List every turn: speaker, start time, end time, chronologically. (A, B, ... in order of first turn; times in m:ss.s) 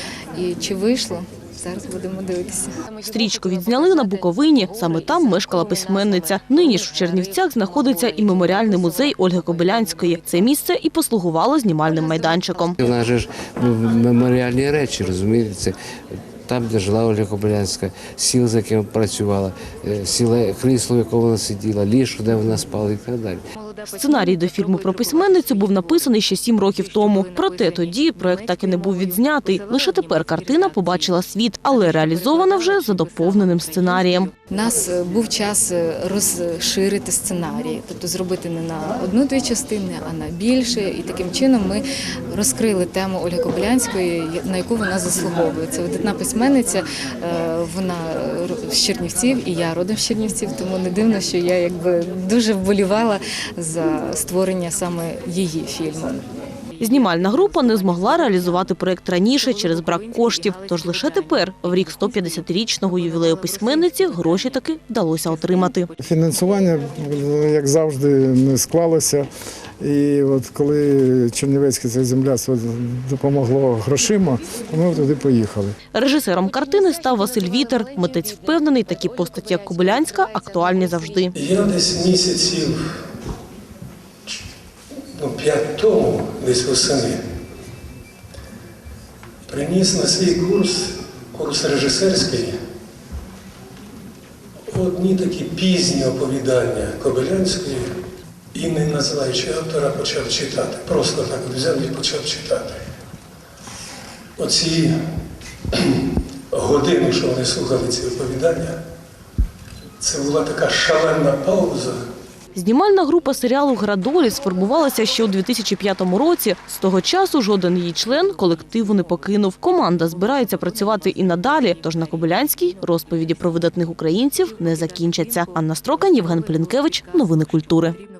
0:00.3-0:02.8 A
0:03.0-0:12.8 B
0:12.8-0:15.8 C
0:16.4-0:23.4 C
0:23.6-0:24.4 A
0:23.9-0:34.3 B
0:34.4-0:56.2 A
0:56.8-1:05.9 B
1:06.0-1:09.3 D
1:09.8-1:15.8 D
1:15.9-1:21.3 B
1:21.3-1:22.8 E
1:25.1-1:27.2 E
1:29.5-1:32.5 E
1:34.7-1:37.9 E
1:38.5-1:42.8 E
1:44.4-1:44.9 E
1:45.7-1:48.8 E
1:50.0-1:52.0 E
1:52.5-2:08.0 B